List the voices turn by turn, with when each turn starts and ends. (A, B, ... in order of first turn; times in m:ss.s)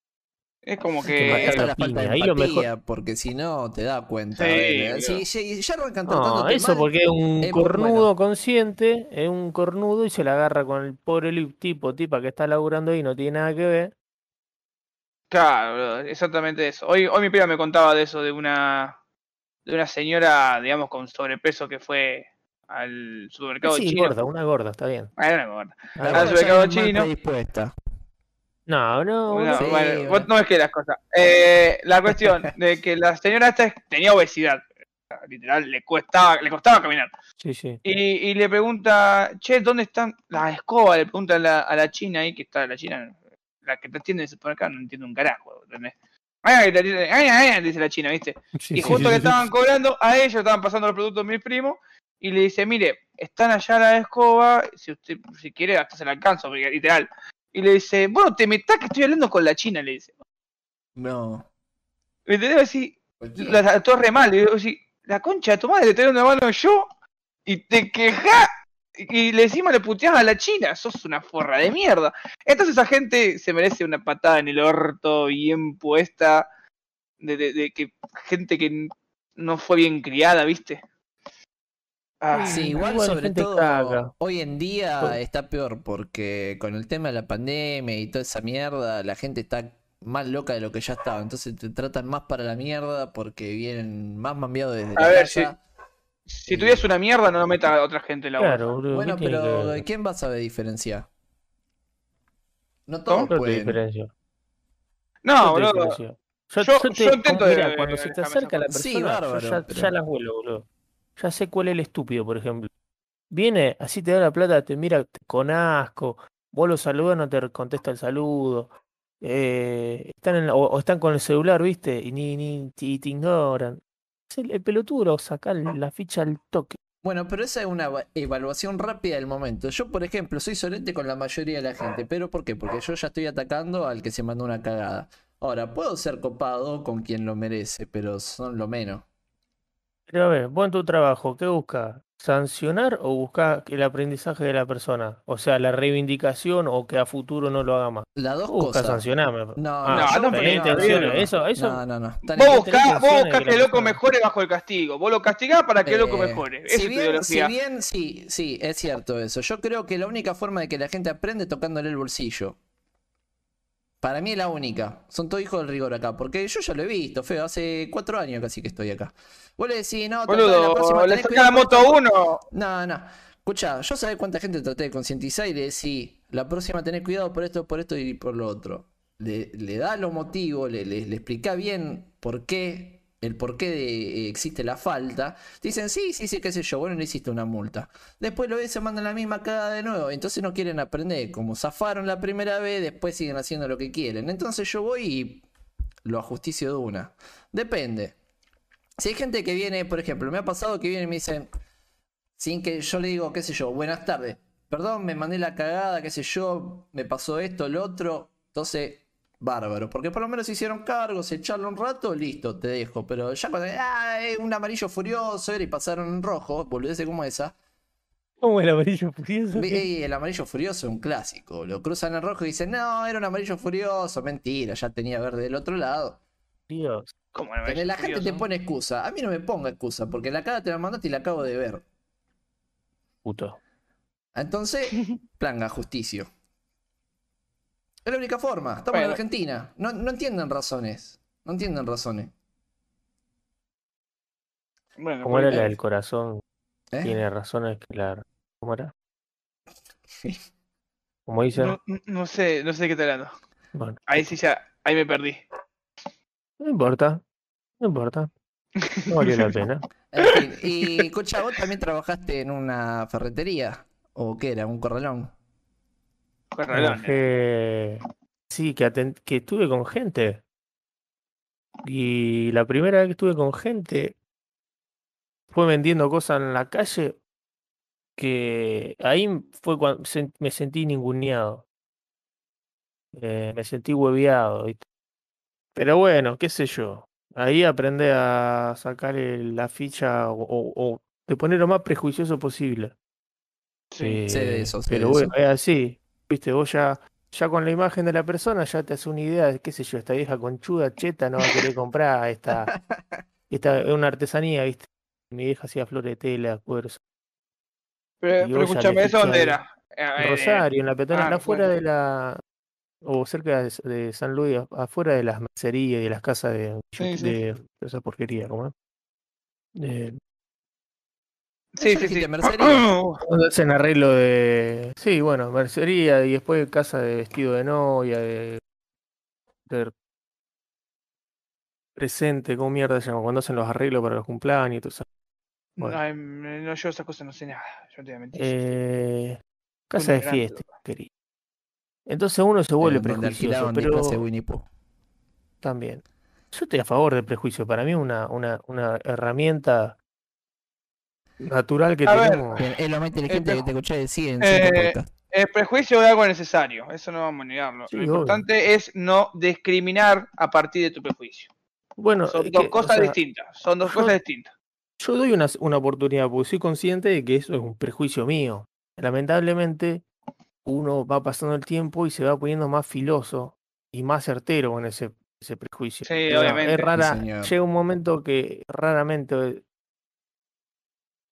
0:00.7-0:01.6 A
0:01.1-0:02.7 B
0:01.3-0:06.9 C
0:04.4-0:05.2 A
0:06.1-0:13.9 B
0:07.4-0:08.1 C
0:15.3-0:19.0 A
0:19.7-0:24.2 A
0:23.6-0:25.1 B
0:25.2-0:27.1 A
0:26.0-0:26.5 B
0:26.1-0:27.7 C
0:28.7-0:29.7 B
0:29.3-0:37.1 A
0:29.6-0:30.3 C
0:37.4-0:37.8 B
0:37.8-1:00.2 A
0:48.6-0:49.5 B
1:01.0-1:01.5 C
1:02.3-1:06.9 A
1:03.2-1:03.6 C
1:07.5-1:16.5 A
1:17.2-1:20.8 A
1:22.2-1:22.7 A
1:22.3-1:24.1 B
1:22.4-1:35.6 C
1:35.0-1:35.5 A
1:36.3-1:38.7 A
1:36.5-1:36.9 C
1:38.4-1:39.8 B
1:38.9-1:41.1 C
1:42.9-1:43.8 C
1:43.3-1:44.1 B
1:45.2-1:46.0 A
1:45.4-1:50.7 B
1:46.6-1:48.6 A
1:48.7-1:49.9 C
1:51.2-1:52.7 B
1:53.3-2:06.8 B
2:07.0-2:19.0 C
2:20.1-2:31.8 B
2:28.2-2:29.0 C
2:29.6-2:32.7 C
2:29.9-2:31.3 A
2:32.4-2:37.5 A
2:32.4-2:34.0 B
2:35.8-2:42.6 C
2:44.0-2:52.0 C
2:50.3-2:52.4 A
2:52.5-3:15.5 C
3:16.0-3:18.2 C
3:19.0-3:21.5 C
3:22.4-3:37.5 C
3:38.4-3:39.8 B
3:39.5-3:46.2 C
3:46.7-3:47.1 B
3:47.3-3:48.5 A
3:47.6-3:51.8 C
3:53.2-3:53.6 B
3:54.4-3:56.3 C
3:58.0-4:02.3 C
3:58.9-3:59.2 A
4:05.0-4:05.8 A
4:05.2-4:06.4 B
4:06.9-4:07.2 C
4:07.0-4:08.9 B
4:11.3-4:11.8 B
4:11.6-4:13.3 A
4:14.1-4:15.4 A
4:16.6-4:17.2 B
4:17.8-4:18.3 B
4:18.8-4:19.6 A
4:19.1-4:19.9 B
4:20.1-4:25.3 C
4:20.2-4:21.0 A
4:26.5-4:27.2 A
4:26.7-4:30.4 B
4:31.8-4:34.2 B
4:35.5-4:37.2 B
4:38.2-4:41.6 B
4:43.1-4:44.8 B
4:45.8-4:52.9 B
4:53.9-4:54.2 A
4:54.0-5:02.7 B
4:54.3-4:55.3 C
5:03.5-5:07.0 B
5:08.2-5:11.7 A
5:08.4-5:09.6 B
5:10.2-5:12.4 B
5:13.0-5:18.7 B
5:17.0-5:17.4 A
5:19.8-5:20.2 B
5:21.8-5:23.2 A
5:21.8-5:22.9 C
5:23.2-5:28.6 B
5:29.7-5:29.9 B
5:32.0-5:35.1 B
5:35.8-5:38.7 A
5:38.4-5:41.1 B
5:40.0-5:40.7 A
5:42.1-5:44.2 B
5:42.8-5:44.7 C
5:45.6-5:50.0 B
5:51.4-5:52.6 B
5:52.0-5:52.6 A
5:52.6-5:55.1 C
5:53.3-5:53.7 A
5:54.4-6:01.5 A
5:57.9-5:58.4 B
6:02.0-6:03.2 B
6:02.3-6:04.5 A
6:03.9-6:04.2 B
6:05.0-6:10.0 B
6:10.6-6:19.6 B
6:16.0-6:16.9 A
6:17.0-6:17.5 C